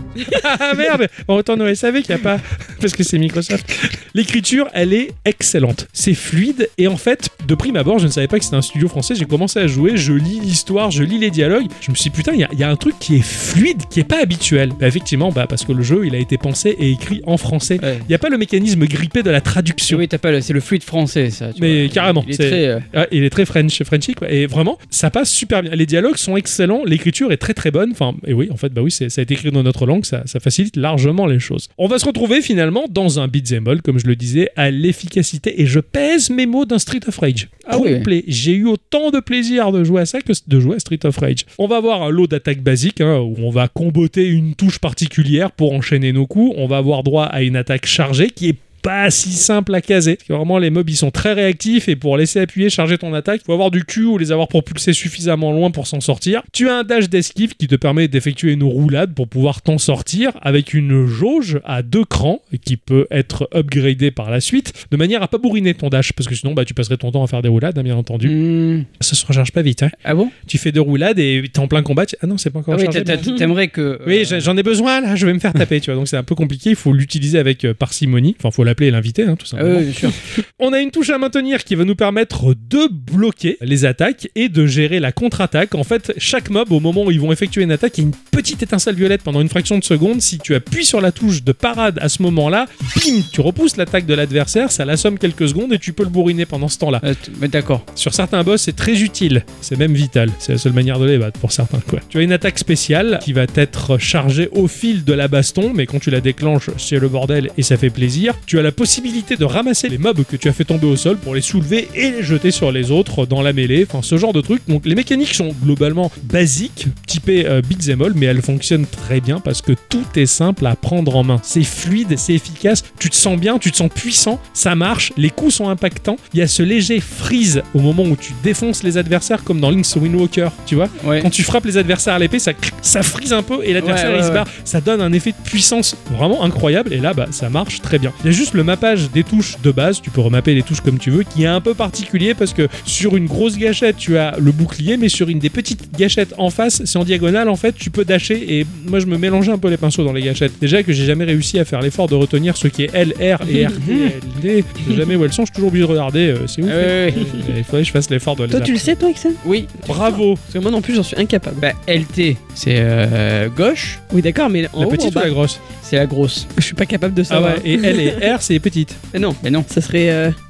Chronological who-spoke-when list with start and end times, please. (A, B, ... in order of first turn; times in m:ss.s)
0:00.2-0:20.0 A
0:17.8-0:18.1 B
0:19.9-0:22.8 B
0:21.6-1:08.4 A
0:37.7-0:38.1 B
1:08.2-1:08.9 B
1:09.0-1:13.4 A
1:10.0-1:10.3 B
1:12.7-1:14.5 B
1:14.0-1:37.0 A
1:19.6-1:20.2 B
1:37.0-1:37.8 B
1:38.0-2:38.9 A
2:11.0-2:11.3 B
2:13.8-2:14.4 B
2:33.5-2:34.2 B
2:36.7-2:37.3 B
2:38.5-2:41.6 C
2:39.4-2:39.8 B
2:39.9-2:40.4 A
2:41.6-2:44.0 B
2:44.1-2:45.3 C
2:44.8-2:45.6 A
2:45.8-2:46.5 B
2:46.6-2:48.3 C
2:47.3-2:49.0 A
2:49.1-2:50.4 C
2:49.4-2:49.7 B